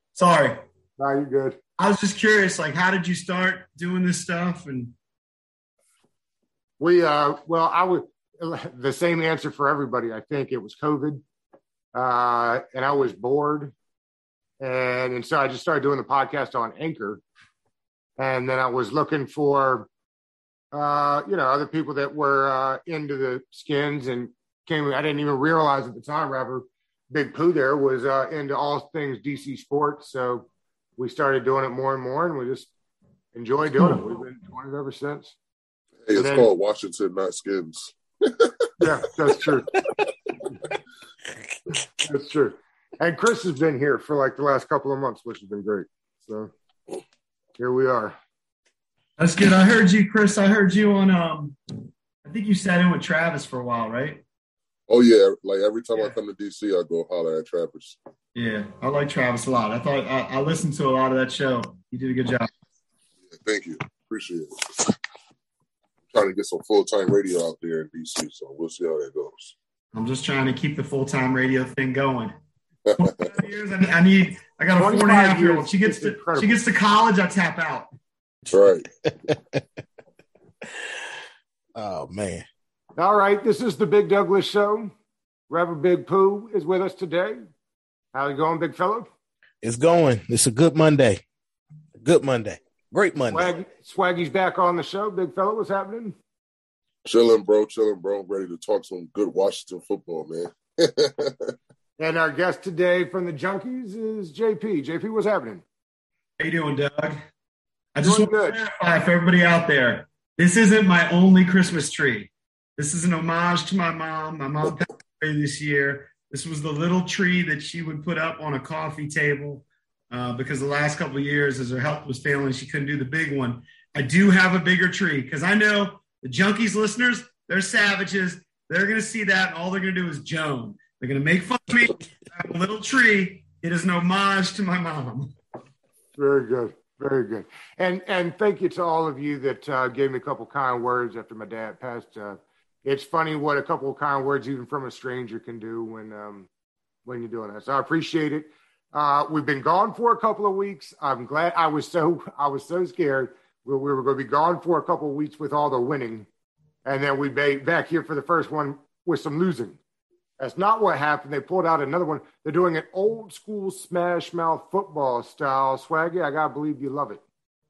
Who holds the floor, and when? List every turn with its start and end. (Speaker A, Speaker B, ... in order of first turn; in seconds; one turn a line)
Speaker A: 0.1-0.6
Speaker B: 1.0-1.6
Speaker A: 1.8-4.9
Speaker B: 6.8-11.2
Speaker B: 11.9-13.7
Speaker B: 14.6-17.2
Speaker B: 18.2-19.9
Speaker B: 20.7-32.7
Speaker B: 33.3-35.3
Speaker C: 36.1-38.5
Speaker B: 36.1-36.5
Speaker B: 38.8-39.7
Speaker B: 42.0-46.5
Speaker B: 47.6-48.2
Speaker A: 49.2-51.5
Speaker A: 52.2-54.2
Speaker C: 54.9-58.0
Speaker A: 58.3-62.5
Speaker C: 63.3-64.9
Speaker C: 66.1-69.5
Speaker A: 69.9-72.3
Speaker C: 72.9-73.3
Speaker A: 73.0-77.9
Speaker B: 74.7-76.6
Speaker C: 78.5-78.8
Speaker D: 79.2-79.6
Speaker D: 81.8-82.5
Speaker B: 83.0-84.9
Speaker B: 85.5-87.4
Speaker B: 88.1-89.1
Speaker D: 89.6-91.2
Speaker D: 92.0-93.5
Speaker B: 93.3-96.2
Speaker C: 97.0-101.5
Speaker B: 102.0-105.6
Speaker A: 106.4-107.2
Speaker A: 107.9-135.3
Speaker B: 108.0-108.6
Speaker B: 136.2-146.5
Speaker B: 147.0-156.3
Speaker B: 156.8-159.8
Speaker B: 160.4-167.2